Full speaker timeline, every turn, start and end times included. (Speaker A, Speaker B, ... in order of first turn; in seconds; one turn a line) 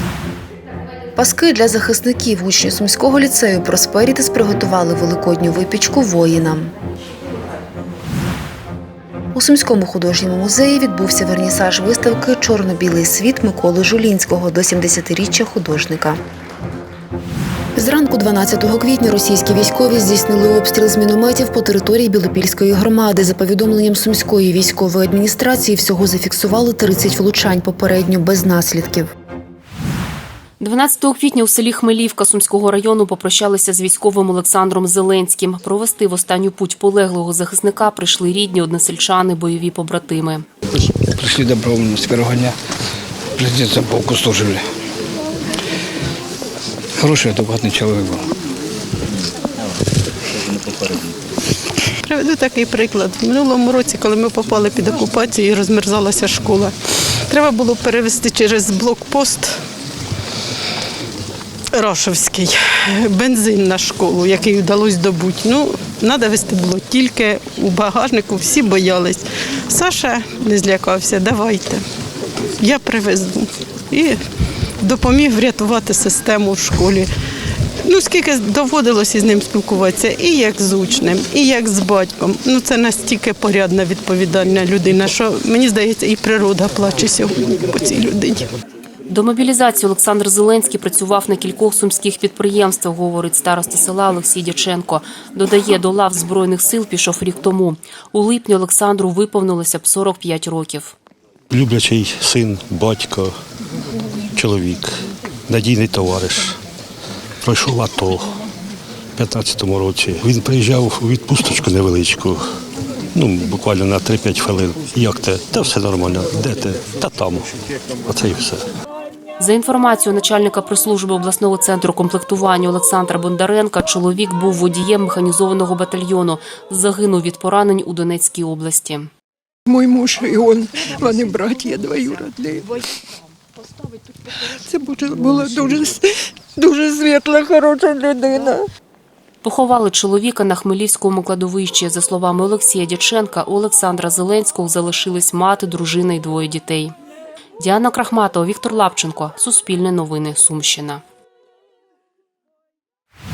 Speaker A: 1.1-6.7
Speaker A: 9.3-16.2
Speaker A: 17.8-29.1
Speaker B: 30.6-40.5
Speaker C: 41.3-42.4
Speaker C: 43.5-44.5
Speaker C: 47.1-48.0
Speaker D: 52.1-56.7
Speaker D: 57.3-59.5
Speaker D: 61.7-71.8
Speaker D: 72.6-74.2
Speaker D: 74.8-77.1
Speaker D: 77.8-88.4
Speaker B: 89.1-100.9
Speaker E: 101.5-103.3
Speaker E: 104.3-104.9
Speaker E: 105.5-106.6
Speaker E: 107.4-108.3
Speaker E: 109.2-112.4
Speaker E: 113.1-117.5
Speaker E: 118.1-118.6
Speaker B: 119.4-129.1
Speaker F: 129.7-132.6
Speaker F: 134.7-136.0
Speaker F: 136.6-138.6
Speaker B: 139.4-146.9
Speaker B: 147.6-151.0